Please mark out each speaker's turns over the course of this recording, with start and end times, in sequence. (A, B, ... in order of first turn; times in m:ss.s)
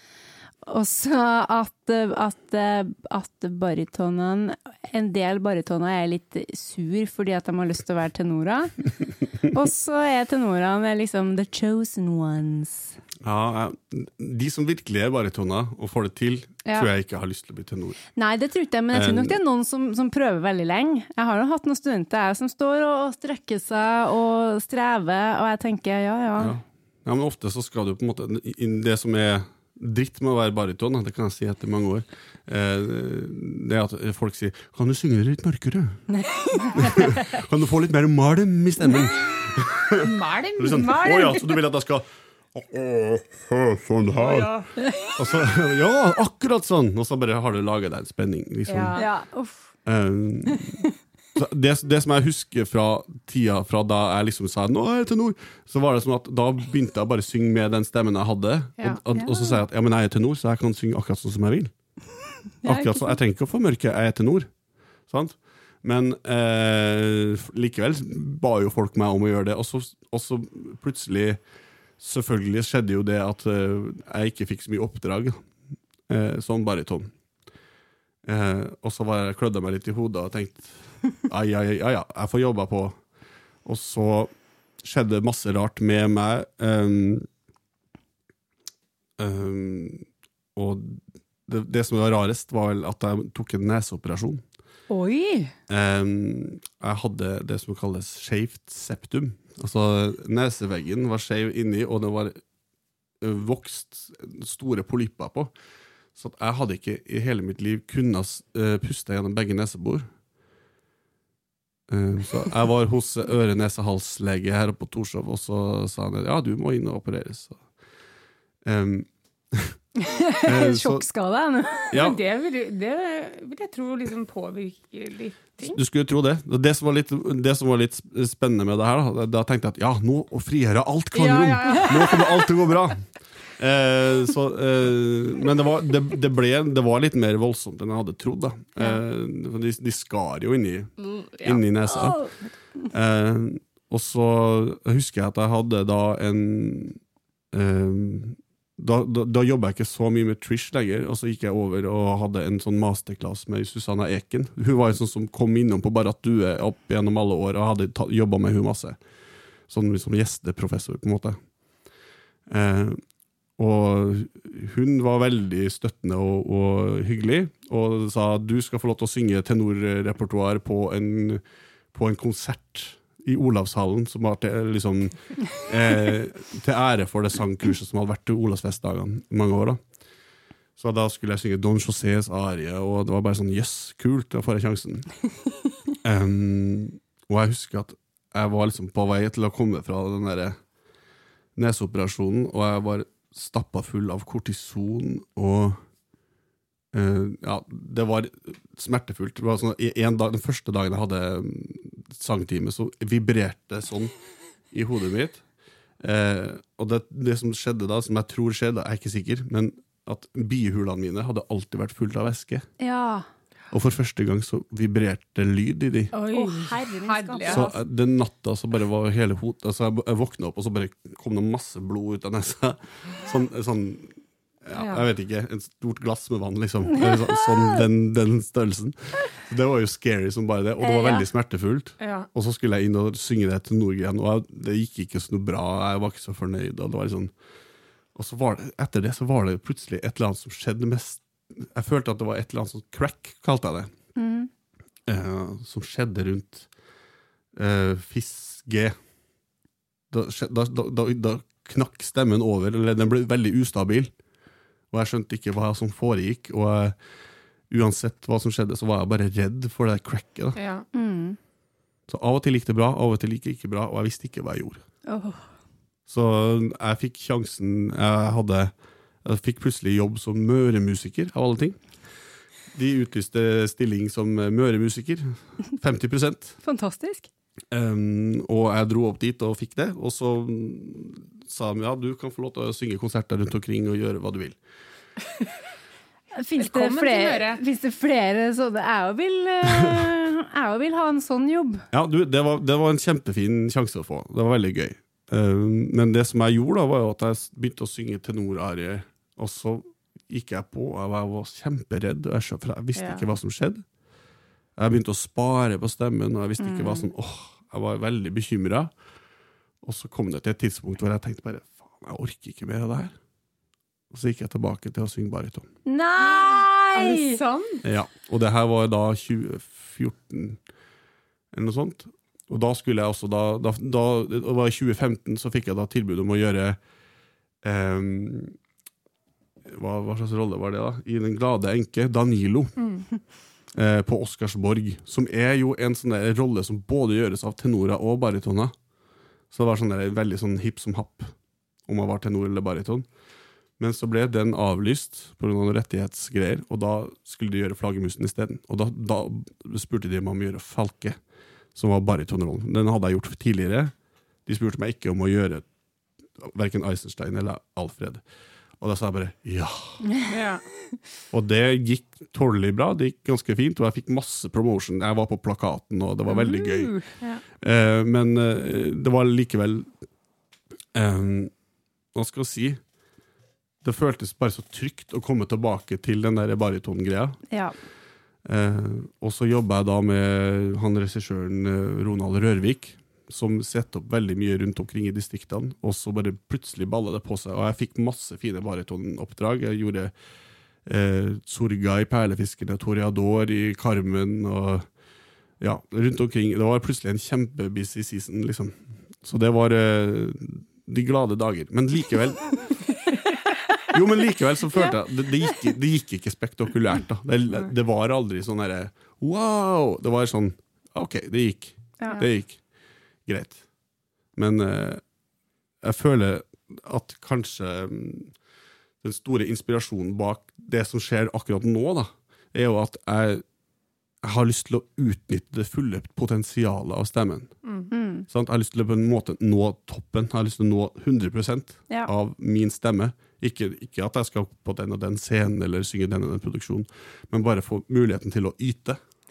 0:00.6-0:13.0 A
0:13.2-0:18.0 B
0:16.6-0:16.9 A
0:18.2-0:26.5 A
0:18.9-0:19.4 B
0:26.4-0:36.0 B
0:36.1-0:36.9 A
0:36.7-0:44.5 B
0:40.0-0:41.4 C
0:40.8-0:41.4 A
0:44.1-0:44.7 C
0:44.8-0:45.1 A
0:45.1-0:49.0 B
0:48.7-0:49.0 C
0:49.0-0:49.7 A
0:49.8-0:50.8 B
0:51.3-1:01.7 B
0:59.1-0:59.6 A
1:02.6-1:03.2 A
1:02.6-1:04.5 B
1:05.1-1:11.4 B
1:12.0-1:15.5 B
1:16.1-1:17.1 B
1:18.2-1:23.0 B
1:23.6-1:24.3 B
1:24.8-1:27.3 B
1:29.2-1:34.4 B
1:34.9-1:35.5 A
1:35.7-1:42.4 B
1:43.2-1:45.5 B
1:46.1-1:50.1 B
1:51.9-1:57.6 B
1:58.6-1:59.8 B
2:00.1-2:02.1 A
2:00.4-2:01.0 B
2:01.9-2:02.2 B
2:01.9-2:05.8 C
2:05.6-2:22.2 B
2:11.1-2:12.4 C
2:21.0-2:21.6 C
2:21.9-2:22.3 A
2:22.9-2:27.0 B
2:27.5-2:39.0 B
2:39.7-2:41.4 B
2:42.5-2:43.0 B
2:43.6-2:59.8 B
3:00.8-3:05.1 B
3:06.0-3:10.6 B
3:11.6-3:15.8 B
3:16.9-3:24.1 B
3:24.7-3:25.4 B
3:26.0-3:32.6 B
3:32.8-3:33.2 A
3:33.7-3:36.1 B
3:36.1-3:37.8 C
3:36.3-3:37.7 A
3:37.5-3:57.3 B
3:44.7-3:45.0 C
3:50.8-3:51.2 A
3:52.0-3:52.3 C
3:58.1-4:03.9 B
4:04.2-4:04.5 A
4:05.1-4:06.7 B
4:07.5-4:09.0 B
4:10.1-4:14.1 B
4:14.9-4:17.0 B
4:17.7-4:20.6 B
4:20.5-4:20.9 C
4:20.9-4:21.4 A
4:22.1-4:24.8 B
4:25.0-4:25.4 A
4:26.1-4:31.8 B
4:32.7-4:36.6 B
4:36.6-4:37.3 A
4:37.7-4:44.6 B
4:46.4-4:51.8 A
4:46.6-4:47.6 C
4:49.7-4:50.0 B
4:51.9-5:03.8 B
5:02.9-5:03.2 C
5:04.8-5:08.9 B
5:06.6-5:07.1 A
5:09.8-5:13.1 B
5:14.1-5:15.7 B
5:15.8-5:17.4 A
5:16.2-5:17.8 C
5:17.8-5:20.6 B
5:21.5-5:26.8 B
5:27.6-5:28.6 B
5:29.6-5:32.7 B
5:32.8-5:33.0 C
5:33.7-5:38.7 B
5:39.5-5:43.0 B
5:43.8-5:51.2 B
5:51.7-5:53.9 B
5:54.4-5:55.6 B
5:56.4-5:58.2 B
5:58.8-6:00.0 B
6:00.3-6:00.7 C
6:01.3-6:09.9 B
6:06.3-6:07.0 A
6:07.2-6:07.4 C
6:10.9-6:11.5 B
6:12.1-6:12.8 B
6:13.8-6:17.4 B
6:18.4-6:30.1 B
6:30.8-6:34.9 B
6:35.6-6:42.8 B
6:43.9-6:52.6 B
6:53.2-6:53.6 B
6:54.4-6:55.0 B
6:55.8-6:58.3 B
6:59.0-7:03.4 B
7:04.2-7:07.5 B
7:07.6-7:07.9 C
7:07.9-7:08.2 A
7:08.3-7:19.0 B